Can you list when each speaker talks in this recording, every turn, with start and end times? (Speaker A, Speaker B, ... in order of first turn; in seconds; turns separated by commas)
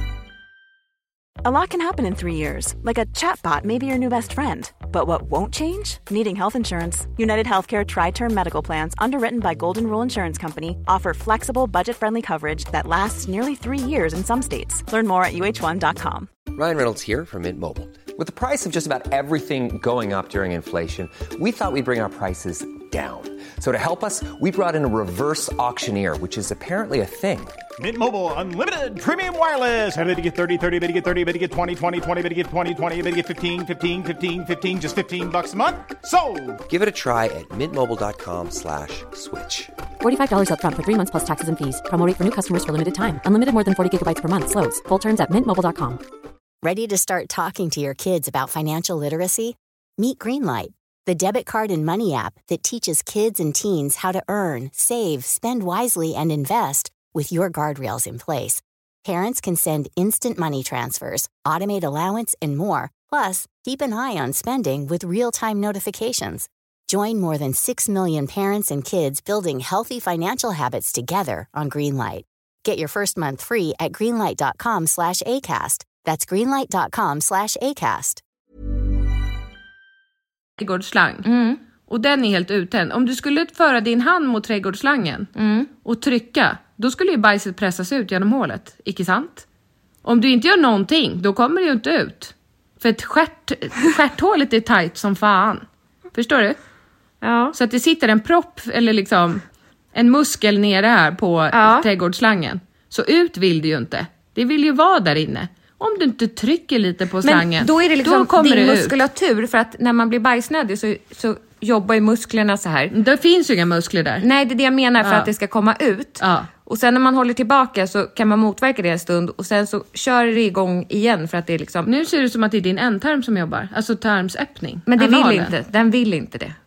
Speaker A: 1.4-16.3, Speaker B: 16.5-27.6, Speaker C: 27.8-36.6, Speaker B: 36.7-39.7, Speaker D: 40.0-46.0, Speaker E: 46.6-78.2, Speaker F: 80.6-81.2, Speaker G: 81.2-81.6, Speaker F: 81.9-85.3, Speaker G: 85.3-85.7, Speaker F: 85.8-89.5, Speaker F: 90.0-96.6, Speaker G: 97.2-97.5, Speaker F: 97.5-109.0, Speaker G: 101.5-101.8, Speaker G: 107.2-112.9, Speaker F: 112.9-114.2, Speaker G: 114.2-121.9, Speaker F: 115.0-115.3, Speaker F: 116.2-116.5, Speaker F: 121.8-125.5, Speaker G: 124.9-126.5